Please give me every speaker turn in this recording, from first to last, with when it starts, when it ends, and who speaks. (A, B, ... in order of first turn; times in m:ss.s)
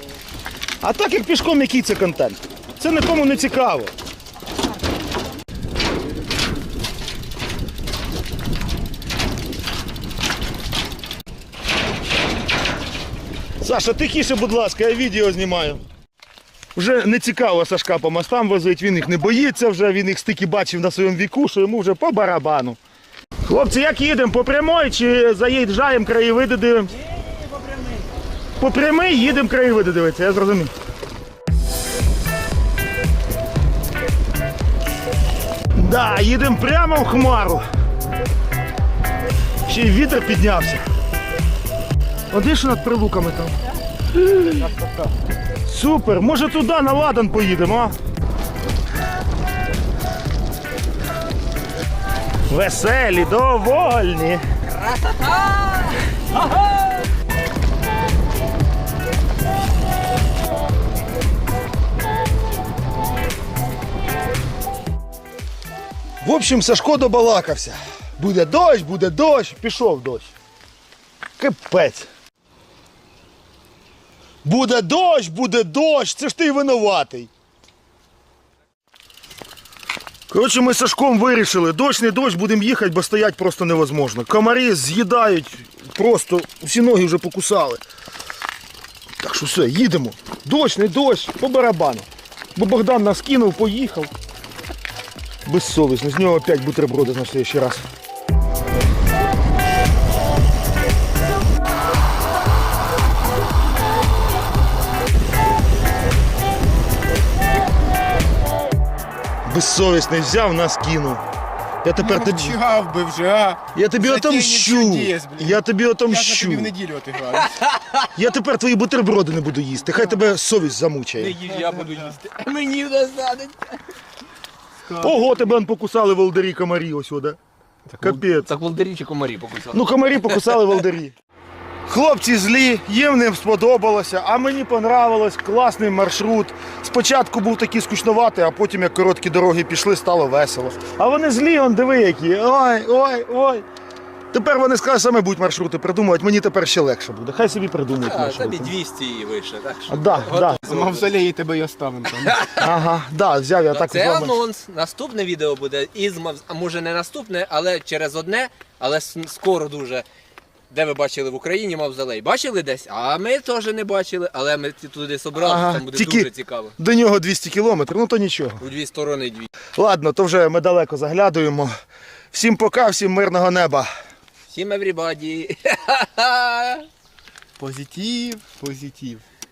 0:00.8-0:03.9 A
0:13.6-0:15.8 A
0:16.8-0:22.8 A
0:23.5-0:26.9 A
0:26.9-0:28.1 B
0:28.6-0:30.7 A
0:35.7-0:37.6 A
0:39.7-0:40.8 A
0:42.3-0:43.6 A
0:44.1-0:44.6 A
0:44.6-0:45.1 C
0:45.6-0:48.0 A
0:52.5-0:54.4 A
0:54.6-0:57.0 B
1:06.2-1:10.3 A
1:11.4-1:12.1 A
1:14.4-1:17.3 A
1:20.3-1:27.8 A
1:29.2-1:34.1 A
1:35.5-1:37.8 A
1:49.5-1:51.2 A
1:51.8-1:52.6 A
1:52.0-1:57.6 C
1:53.7-1:56.7 A
1:57.4-1:58.1 B
1:58.1-2:01.4 A
2:01.2-2:03.8 B
2:01.5-2:02.2 C
2:04.9-2:05.5 C
2:05.0-2:07.4 A
2:07.9-2:10.7 B
2:08.0-2:08.5 A
2:09.7-2:11.1 A
2:11.9-2:23.6 A
2:24.3-2:28.7 A
2:28.0-2:31.1 B
2:29.9-2:30.6 A
2:30.6-2:32.5 C
2:32.2-2:32.7 B
2:32.6-2:34.4 A
2:33.7-2:40.0 B
2:40.7-2:46.8 B
2:45.4-2:48.6 A
2:48.6-2:49.5 B
2:49.8-2:51.7 A
2:52.3-2:53.9 A
2:54.5-2:56.9 B
2:57.6-2:59.2 C